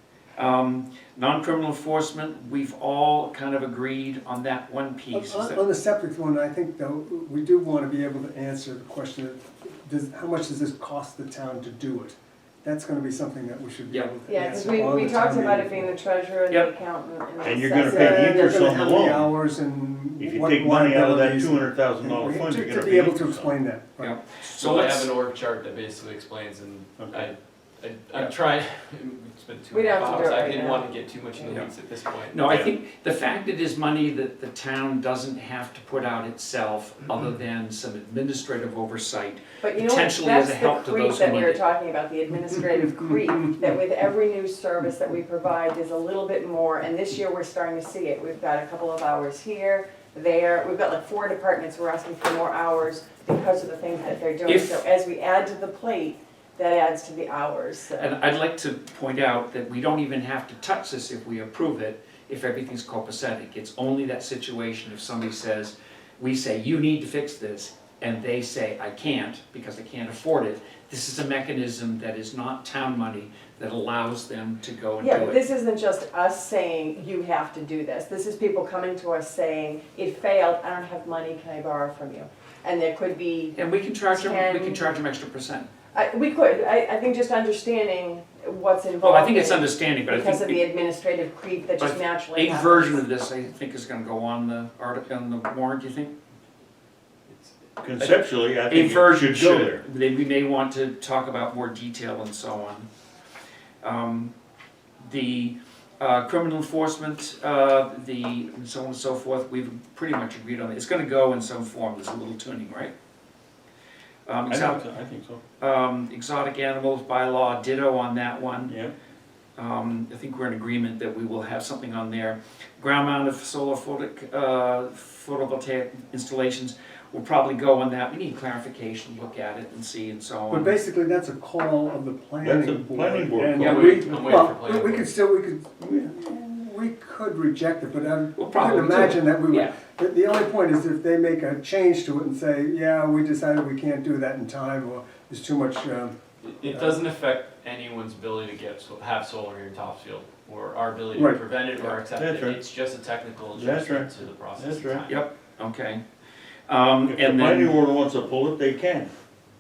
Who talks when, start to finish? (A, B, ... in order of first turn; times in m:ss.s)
0:00.4-0:05.6 A
0:05.1-0:16.0 B
0:14.3-0:18.7 C
0:17.4-0:19.3 D
0:17.8-0:24.2 B
0:20.2-0:23.5 D
0:24.0-0:25.1 A
0:24.5-0:32.5 E
0:27.0-0:27.3 D
0:29.7-0:31.6 C
0:32.3-0:41.6 A
0:39.6-0:58.1 C
0:54.5-0:54.8 A
0:58.0-1:15.4 A
1:15.0-1:23.6 C
1:23.6-1:25.7 A
1:24.1-1:24.9 C
1:25.9-1:33.0 C
1:29.0-1:30.6 A
1:31.8-1:36.1 A
1:37.3-1:37.5 E
1:37.8-1:39.8 D
1:38.7-1:42.9 A
1:43.8-1:44.3 A
1:45.0-1:52.9 A
1:54.3-1:54.8 A
1:54.5-1:55.4 D
1:55.6-1:58.7 A
1:58.6-1:58.9 D
1:59.6-2:10.8 A
2:10.5-2:26.2 B
2:12.4-2:14.4 D
2:13.6-2:15.1 E
2:13.6-2:14.0 A
2:15.8-2:16.1 D
2:18.4-2:19.8 A
2:26.4-2:35.3 E
2:26.7-2:27.0 B
2:31.1-2:31.4 B
2:32.2-2:32.6 D
2:33.5-2:35.1 D
2:35.1-2:36.0 A
2:36.7-2:37.8 A
2:37.0-2:39.1 D